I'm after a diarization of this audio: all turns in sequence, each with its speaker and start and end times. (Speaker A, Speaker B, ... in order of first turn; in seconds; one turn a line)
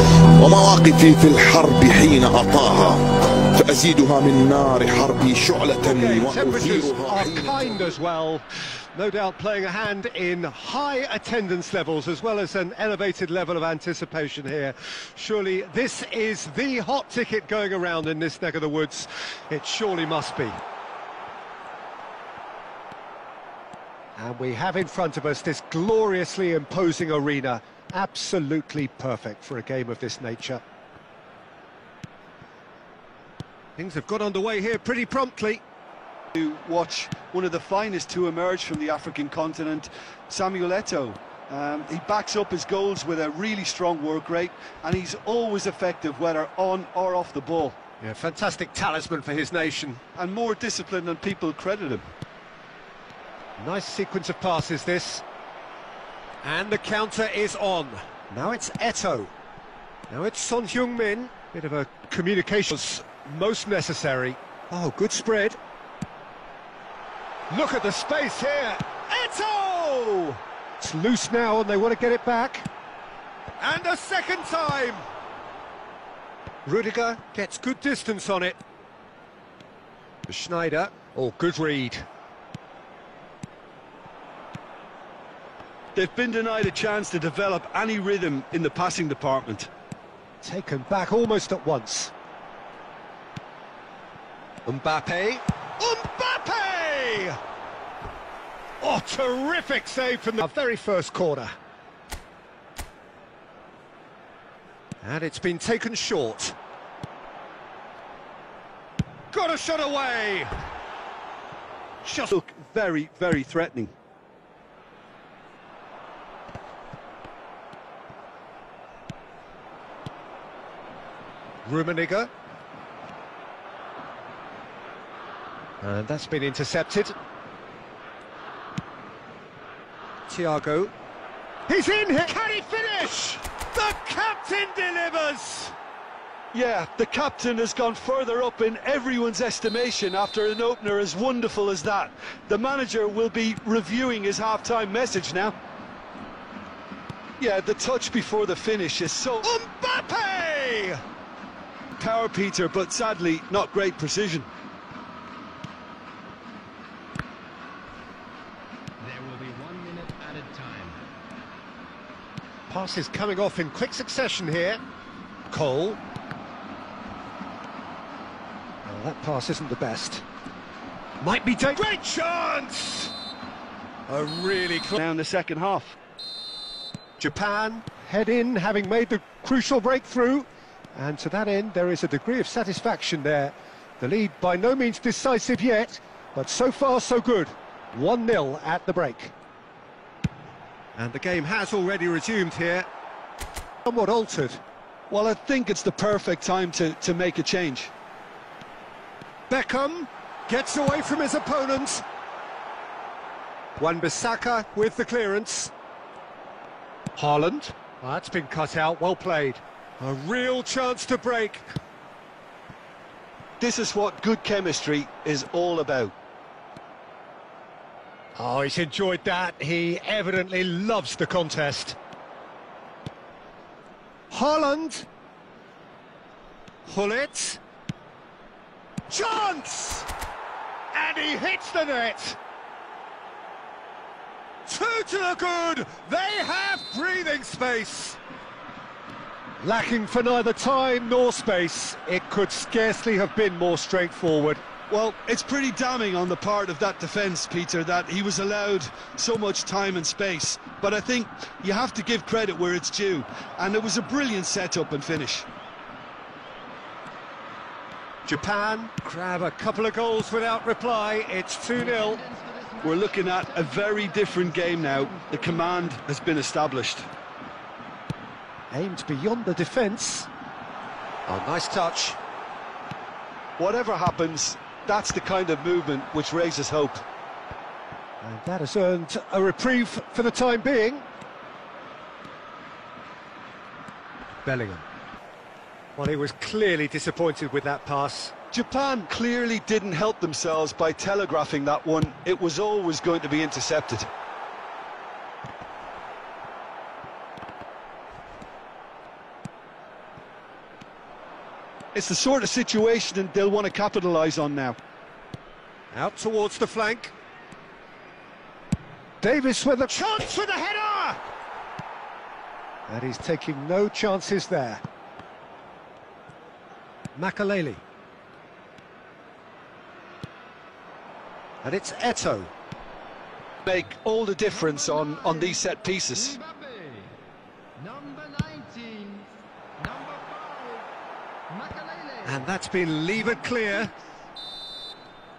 Speaker A: 0.4-3.0
Speaker A: 3.5-7.9
Speaker B: 5.8-20.6
Speaker B: 24.1-30.6
Speaker B: 33.8-35.6
Speaker C: 36.3-47.8
Speaker B: 48.0-50.0
Speaker C: 50.1-52.0
Speaker B: 53.6-55.2
Speaker B: 56.4-59.3
Speaker B: 60.1-65.6
Speaker B: 67.5-72.7
Speaker B: 73.6-75.0
Speaker B: 76.6-78.6
Speaker B: 80.3-82.1
Speaker C: 85.9-89.7
Speaker B: 90.4-92.1
Speaker B: 94.6-97.4
Speaker B: 98.8-101.5
Speaker B: 105.0-106.5
Speaker B: 109.3-110.5
Speaker B: 112.0-112.3
Speaker C: 112.3-113.9
Speaker B: 121.6-122.3
Speaker B: 125.8-127.1
Speaker B: 130.3-130.9
Speaker B: 131.7-135.7
Speaker C: 136.5-145.6
Speaker C: 147.4-149.5
Speaker B: 149.4-151.0
Speaker C: 152.0-154.5
Speaker D: 159.0-161.0
Speaker B: 162.7-164.8
Speaker B: 165.5-166.0
Speaker B: 168.8-170.2
Speaker B: 171.2-173.1
Speaker B: 174.1-174.9
Speaker C: 174.9-175.9
Speaker B: 177.2-189.3
Speaker B: 190.9-192.9
Speaker B: 193.8-194.6
Speaker C: 195.1-197.9
Speaker B: 199.5-202.0
Speaker B: 203.8-205.7
Speaker B: 207.2-211.7
Speaker C: 213.6-216.1
Speaker B: 218.4-222.0
Speaker B: 224.3-225.1
Speaker B: 226.8-227.6
Speaker B: 229.1-230.1
Speaker B: 230.9-232.4
Speaker B: 234.7-238.2
Speaker B: 239.6-244.6
Speaker C: 244.9-255.5
Speaker B: 258.2-262.2
Speaker D: 261.9-265.6
Speaker C: 262.8-267.1
Speaker B: 268.7-270.3
Speaker B: 271.3-272.2
Speaker C: 273.6-277.0
Speaker B: 278.2-281.1
Speaker B: 284.4-284.8
Speaker B: 285.9-288.3
Speaker C: 288.5-294.1
Speaker C: 301.9-304.8
Speaker B: 305.9-307.1
Speaker B: 309.2-311.2
Speaker B: 312.9-314.8
Speaker B: 317.1-317.8
Speaker B: 321.6-322.5
Speaker C: 323.6-326.4
Speaker D: 324.7-325.5
Speaker D: 326.3-327.1
Speaker D: 327.8-330.9
Speaker D: 331.5-332.4
Speaker B: 332.2-333.9